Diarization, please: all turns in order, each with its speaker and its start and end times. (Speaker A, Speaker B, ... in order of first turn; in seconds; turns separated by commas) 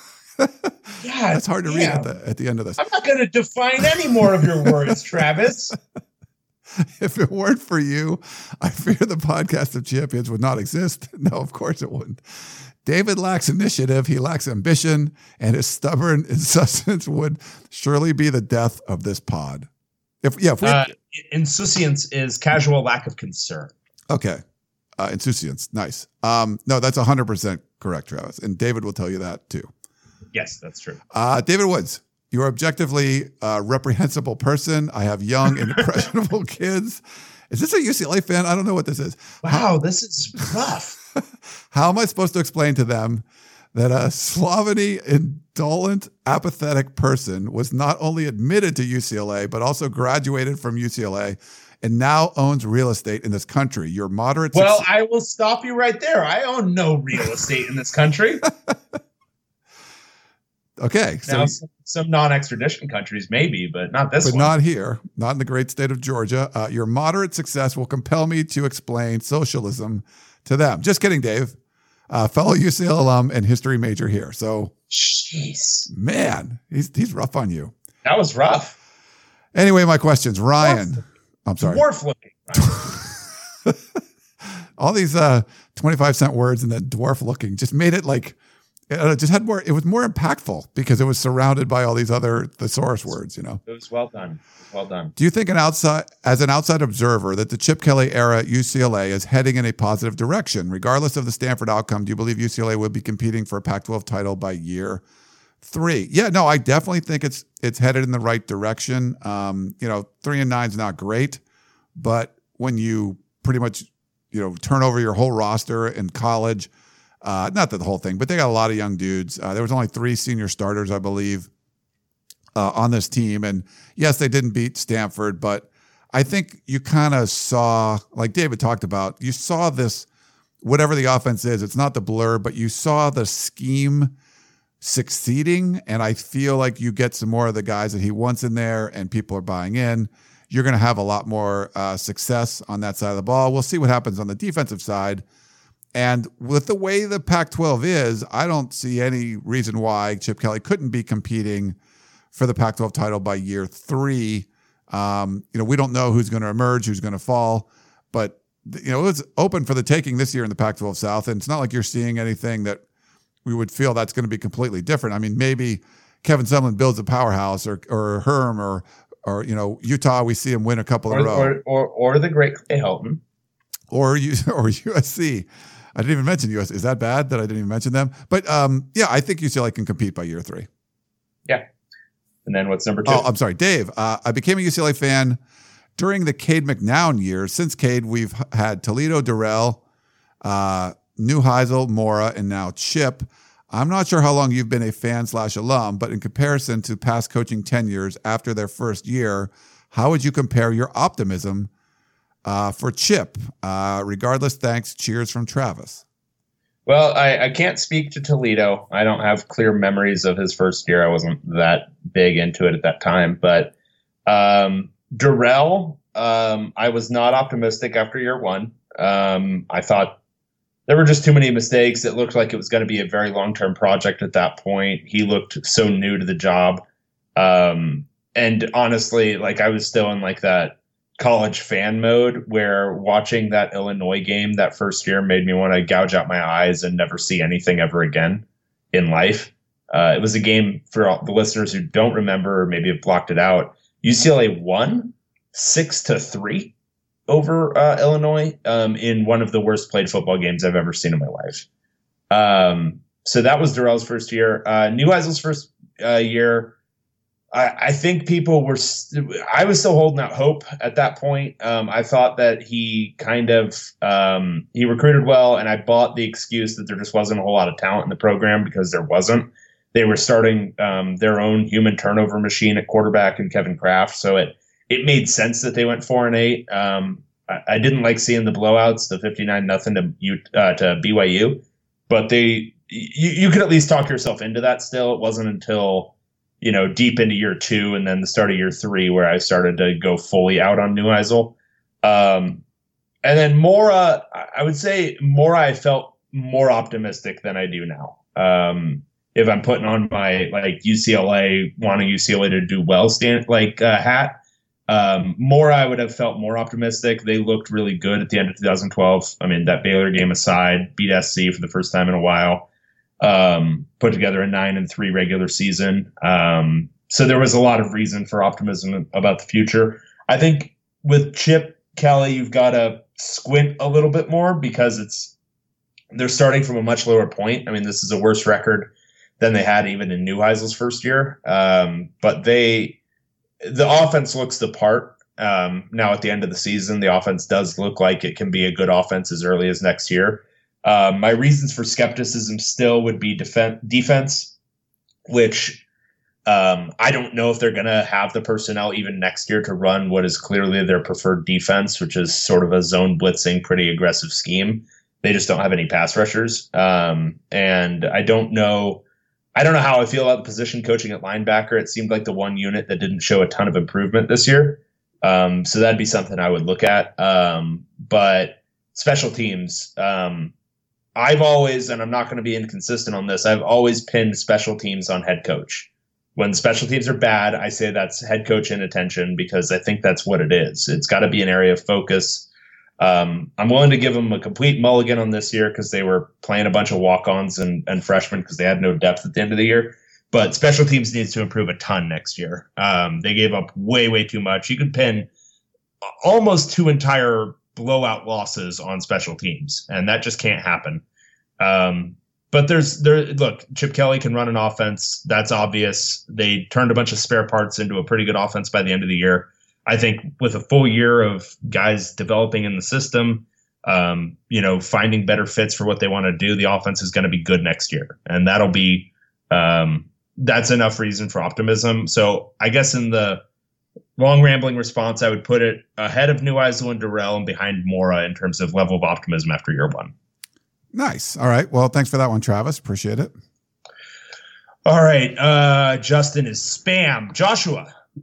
Speaker A: 0.4-2.8, Speaker B: 1.0-2.1, Speaker B: 2.8-5.8, Speaker A: 3.8-4.9, Speaker A: 6.8-19.7, Speaker A: 20.2-20.9, Speaker B: 20.6-23.7, Speaker A: 24.1-24.4, Speaker A: 25.0-29.7, Speaker B: 30.3-31.0, Speaker A: 31.1-39.7, Speaker B: 39.4-41.0, Speaker A: 41.2-54.9, Speaker B: 54.5-58.4, Speaker A: 60.8-61.5, Speaker B: 61.3-64.5, Speaker A: 64.2-71.6, Speaker A: 72.1-74.7, Speaker B: 74.9-75.9, Speaker A: 75.9-77.7, Speaker B: 78.0-78.8, Speaker A: 79.5-81.8, Speaker B: 80.6-80.9, Speaker B: 81.6-82.9, Speaker A: 82.7-83.8, Speaker A: 84.5-88.4, Speaker A: 88.9-93.6, Speaker B: 93.7-95.1, Speaker A: 95.2-105.0, Speaker A: 105.6-111.4, Speaker A: 112.0-116.7, Speaker A: 117.2-121.5, Speaker A: 122.5-130.1, Speaker A: 130.6-134.1, Speaker A: 134.8-145.2, Speaker A: 145.9-151.8, Speaker A: 152.3-162.8, Speaker A: 163.4-171.6, Speaker B: 171.1-173.2, Speaker A: 173.9-180.7, Speaker B: 182.4-183.3, Speaker A: 183.1-185.4, Speaker A: 186.0-189.8, Speaker A: 190.4-201.7, Speaker A: 202.4-206.0, Speaker B: 206.9-213.7, Speaker B: 214.3-220.1, Speaker B: 220.9-226.8, Speaker B: 227.4-246.7, Speaker B: 247.3-251.7, Speaker B: 252.3-256.8, Speaker B: 257.5-292.6, Speaker B: 293.2-304.4, Speaker B: 304.9-312.7, Speaker B: 313.2-325.3, Speaker B: 326.1-333.0, Speaker B: 333.6-344.5, Speaker B: 345.3-345.8, Speaker B: 346.5-359.0, Speaker B: 359.6-370.5, Speaker B: 371.2-382.5, Speaker B: 383.0-395.3, Speaker B: 396.1-401.0, Speaker B: 401.6-423.4, Speaker B: 424.2-430.1, Speaker A: 430.9-433.3, Speaker B: 434.9-437.9